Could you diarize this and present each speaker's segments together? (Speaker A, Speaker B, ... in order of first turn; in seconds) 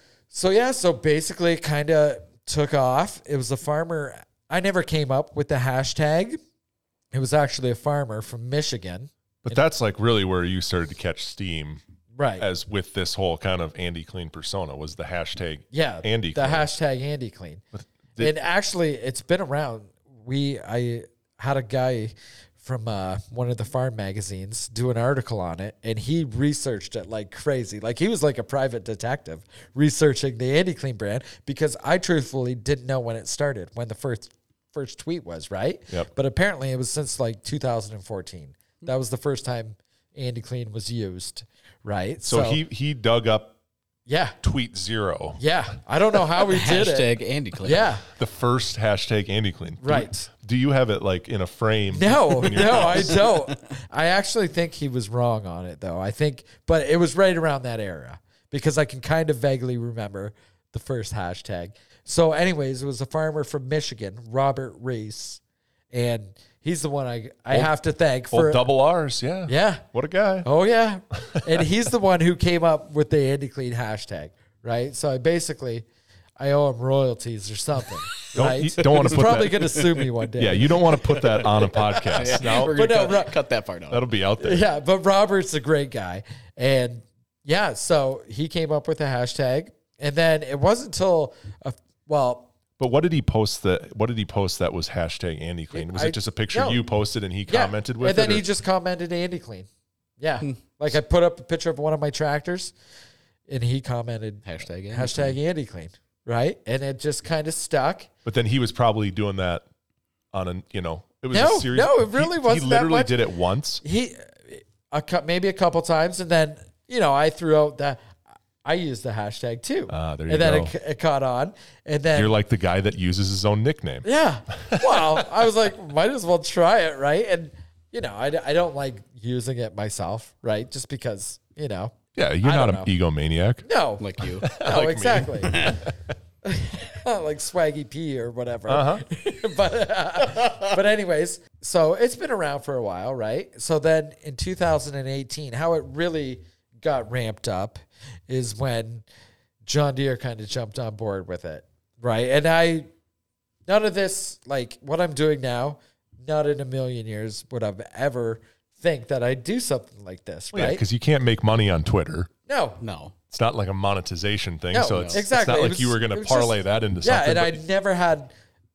Speaker A: 0.3-6.4, 7.1-9.6, 12.2-12.5, 15.7-17.6, 18.2-42.6, 44.1-44.4, 45.4-47.1, 47.6-48.0, 49.8-50.3, 51.9-65.4, 65.9-68.7, 69.5-69.8, 70.4-75.9, 76.4-81.2, 81.7-83.3, 84.4-92.5, 95.7-96.8, 97.5-99.7, 100.2-102.7, 103.5-108.1, 111.3-113.2, 113.8-118.0, 118.6-122.3, 124.0-132.9, 133.6-135.8, 136.4-149.1, 149.7-152.9, 153.7-160.8, 162.5-162.8, 164.7-168.3
Speaker B: 9.4-11.8, 12.4-16.7, 17.7-18.3, 42.3-43.5, 44.4-45.4, 48.1-53.3, 68.3-70.5, 71.1-71.7, 78.3-79.8, 80.4-82.8, 83.9-84.7, 92.8-98.5, 108.2-109.6, 110.3-113.8, 119.9-120.7, 122.1-124.1, 124.7-125.3, 132.2-133.6, 134.4-135.9, 138.7-139.1, 160.5-162.3, 163.3-167.6
Speaker C: 46.4-47.9, 52.5-53.3, 78.8-80.1, 81.0-84.0, 104.5-105.4, 134.0-134.5, 135.4-135.8, 140.3-140.6, 162.8-163.1, 164.9-165.2